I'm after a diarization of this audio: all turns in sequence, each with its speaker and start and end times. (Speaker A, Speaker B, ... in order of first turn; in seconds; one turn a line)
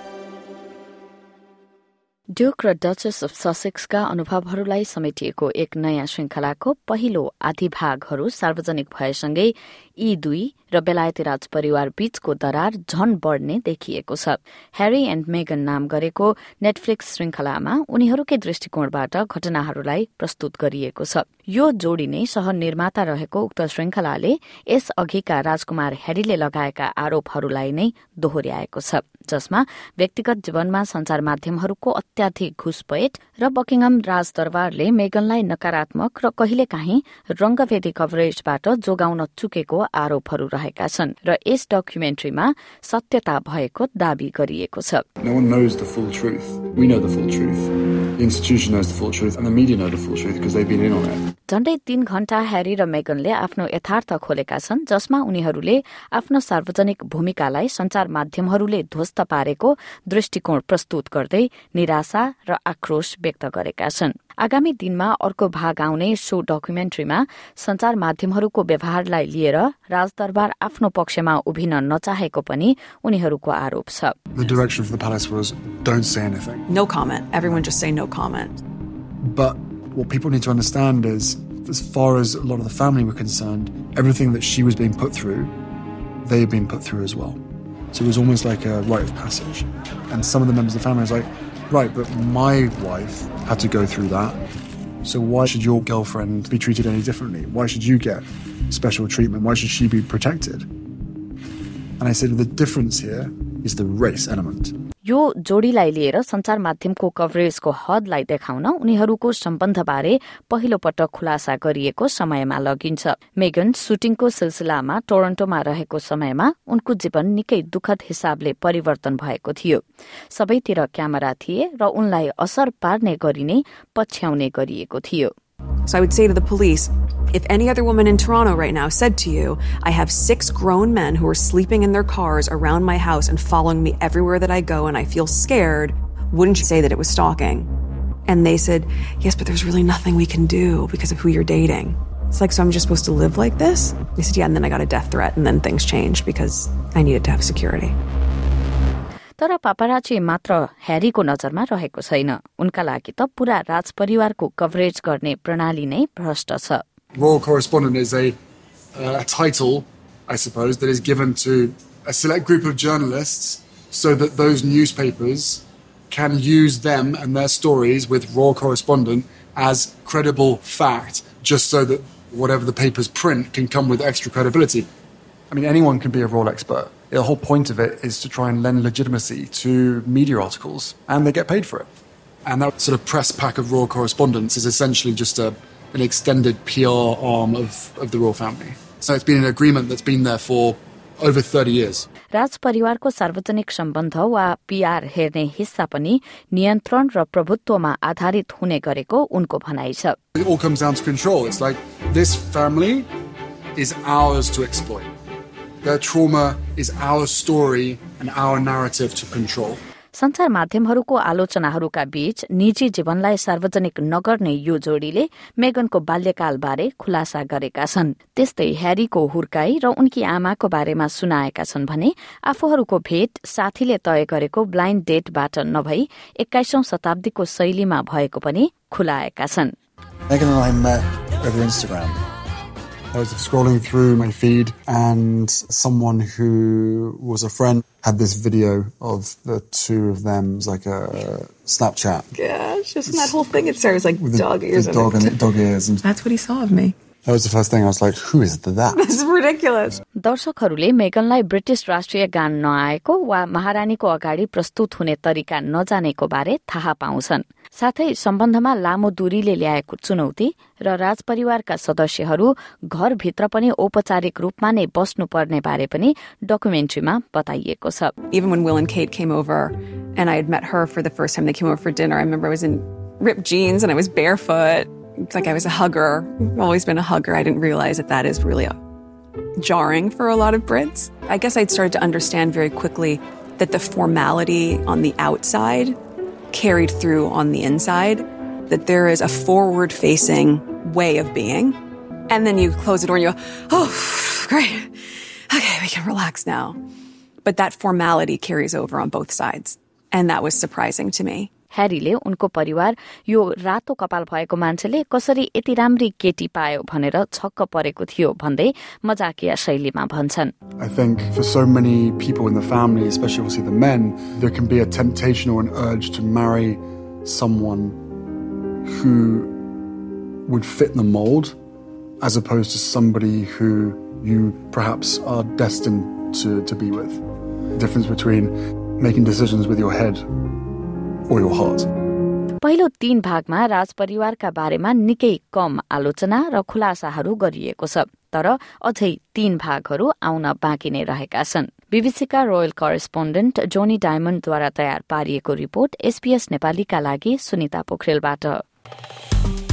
Speaker A: 2.3-45.0
Speaker B: 45.2-51.3
Speaker A: 51.5-74.1
Speaker B: 74.3-76.7
Speaker C: 76.7-78.6
Speaker B: 79.2-85.5
Speaker B: 86.2-87.4
Speaker B: 87.9-94.4
Speaker B: 95.0-100.7
Speaker B: 102.0-104.7
Speaker A: 105.0-125.3
Speaker C: 125.8-137.7
Speaker C: 138.3-147.9
Speaker A: 149.4-156.8
Speaker B: 157.2-158.3
Speaker B: 158.9-174.9
Speaker B: 175.5-181.9
Speaker B: 182.4-192.1
Speaker A: 192.3-200.2
Speaker B: 200.3-203.1
Speaker B: 203.8-205.1
Speaker B: 205.8-209.8
Speaker A: 210.1-229.7
Speaker B: 230.3-232.2
Speaker B: 233.1-242.3
Speaker C: 242.3-245.3
Speaker B: 243.1-243.4
Speaker B: 244.2-246.0
Speaker C: 246.0-246.9
Speaker B: 247.2-249.1
Speaker C: 248.9-250.0
Speaker A: 250.2-268.1
Speaker C: 268.3-278.8
Speaker C: 279.6-286.0
Speaker C: 286.5-291.8
Speaker C: 292.3-294.9
Speaker C: 295.5-296.8
Speaker C: 297.4-301.5
Speaker A: 301.7-310.5
Speaker B: 310.8-318.0
Speaker B: 318.9-319.5
Speaker B: 320.4-321.5
Speaker B: 322.2-327.2
Speaker B: 327.7-330.2
Speaker B: 331.3-331.9
Speaker A: 332.6-348.6